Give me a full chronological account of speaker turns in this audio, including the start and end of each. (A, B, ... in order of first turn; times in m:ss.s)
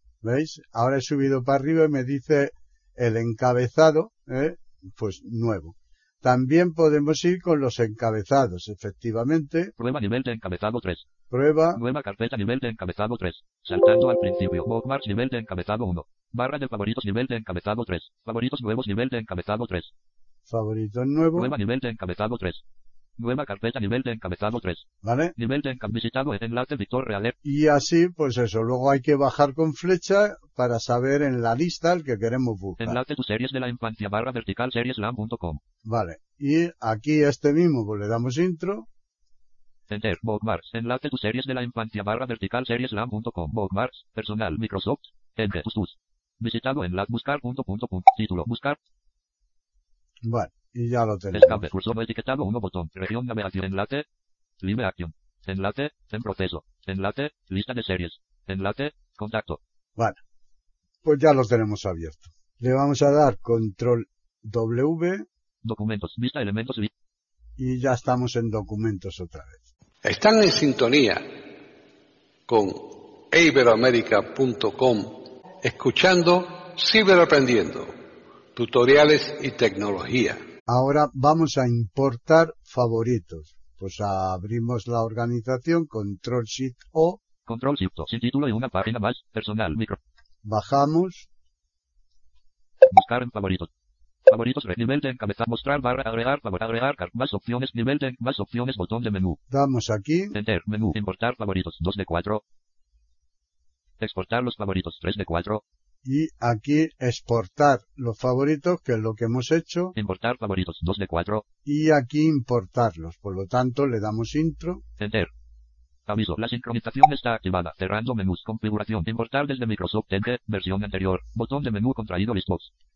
0:00.2-0:09.7 A
0:09.8-0:11.0 B
0:11.3-0:11.8 A
0:11.7-0:19.9 B
0:20.5-0:21.5 A
0:21.3-0:22.6 B
0:23.2-0:24.8 B
0:25.0-0:25.3 A
0:25.4-0:27.4 B
0:27.4-0:33.0 A
0:32.8-0:35.6 B
0:35.8-0:38.9 A
0:39.9-0:48.8 B
0:50.2-0:51.7 A
0:51.3-0:54.0 B
0:54.6-0:59.6 B
1:01.0-1:05.2 A
1:05.6-1:06.9 B
1:07.6-1:09.6 A
1:10.0-1:11.2 C
1:12.5-1:17.9 C
1:18.5-1:20.4 C
1:20.7-1:27.2 A
1:27.4-1:30.0 B
1:30.4-1:31.3 A
1:32.8-1:33.7 B
1:34.3-1:39.4 B
1:39.5-1:40.4 A
1:40.3-1:42.4 B
1:44.0-1:45.6 B
1:46.0-1:49.9 A
1:49.9-1:51.4 B
1:51.6-1:54.8 A
1:55.0-1:55.3 B
1:56.1-2:02.7 B